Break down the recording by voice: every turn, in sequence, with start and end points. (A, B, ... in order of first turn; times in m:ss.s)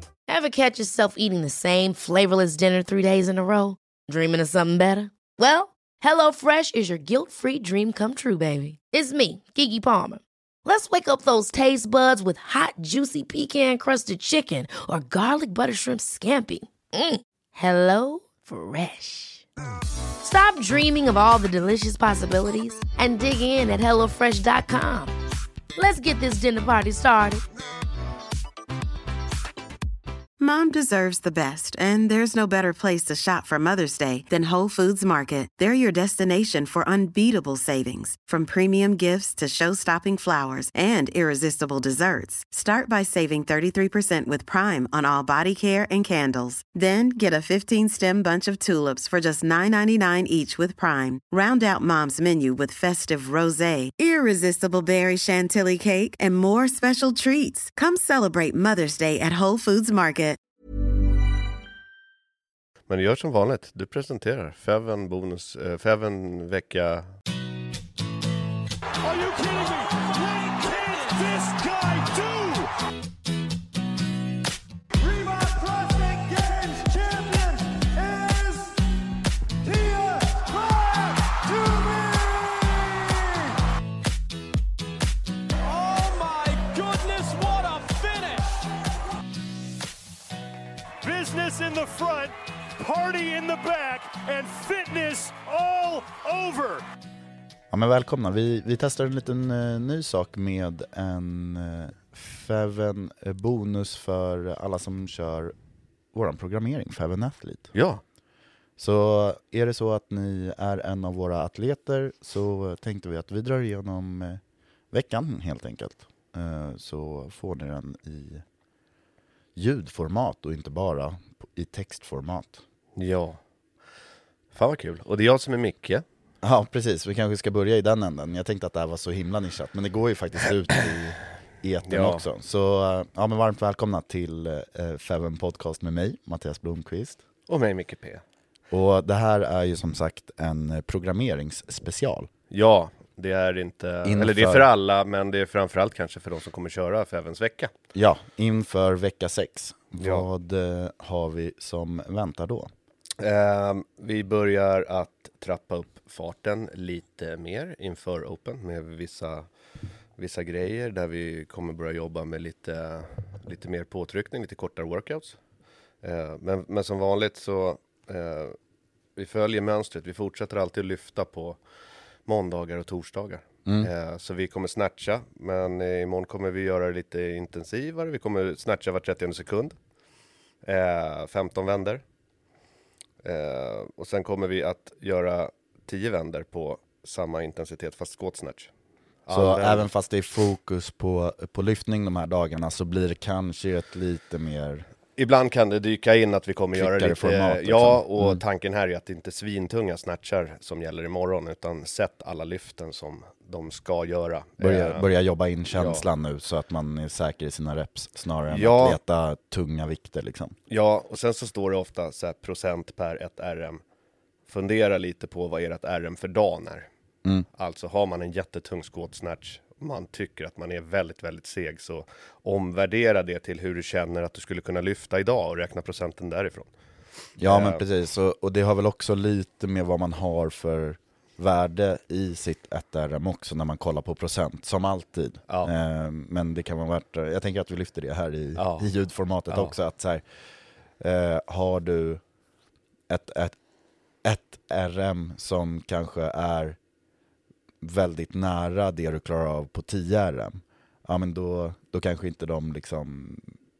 0:00.3-0:19.4 A
0:20.2-0:25.1 A
0:25.8-0:27.4 A
0:30.4-1:00.4 B
1:02.9-1:07.1 C
1:09.1-1:12.3 D
1:15.1-1:16.1 D
1:16.7-1:17.5 D
1:18.0-1:18.6 D
1:19.8-1:20.6 D
1:25.8-1:28.4 D
1:31.1-1:32.0 D
1:37.7-1:45.6 E
1:46.1-1:47.7 E
1:47.7-1:48.0 C
1:48.8-1:58.4 E
1:59.6-2:02.6 E
2:03.0-2:03.4 C
2:04.5-2:06.0 C
2:06.4-2:17.2 E
2:11.9-2:12.2 C
2:17.5-2:18.2 C
2:18.7-2:22.3 E
2:22.5-2:27.7 C
2:24.0-2:24.7 E
2:27.9-2:32.7 E
2:30.0-2:30.3 C
2:33.2-2:39.5 C
2:40.2-2:45.4 C
2:46.0-2:48.6 C
2:49.2-2:51.6 C
2:52.3-2:59.8 C
2:53.7-2:53.9 E
3:00.6-3:02.0 C
3:03.2-3:08.7 C
3:09.3-3:09.9 C
3:09.3-3:14.9 E
3:15.2-3:25.1 C
3:16.8-3:18.4 E
3:24.6-3:30.6 E
3:25.7-3:26.1 C
3:28.5-3:29.0 C
3:30.7-3:33.8 C
3:34.5-3:36.9 C
3:37.5-3:46.7 C
3:47.3-3:47.8 C
3:47.4-4:00.2 E
3:55.5-3:55.7 C
3:58.6-3:58.9 C
3:59.5-3:59.7 C
4:01.0-4:02.2 E
4:03.1-4:03.6 E
4:04.2-4:06.8 E
4:07.8-4:13.6 E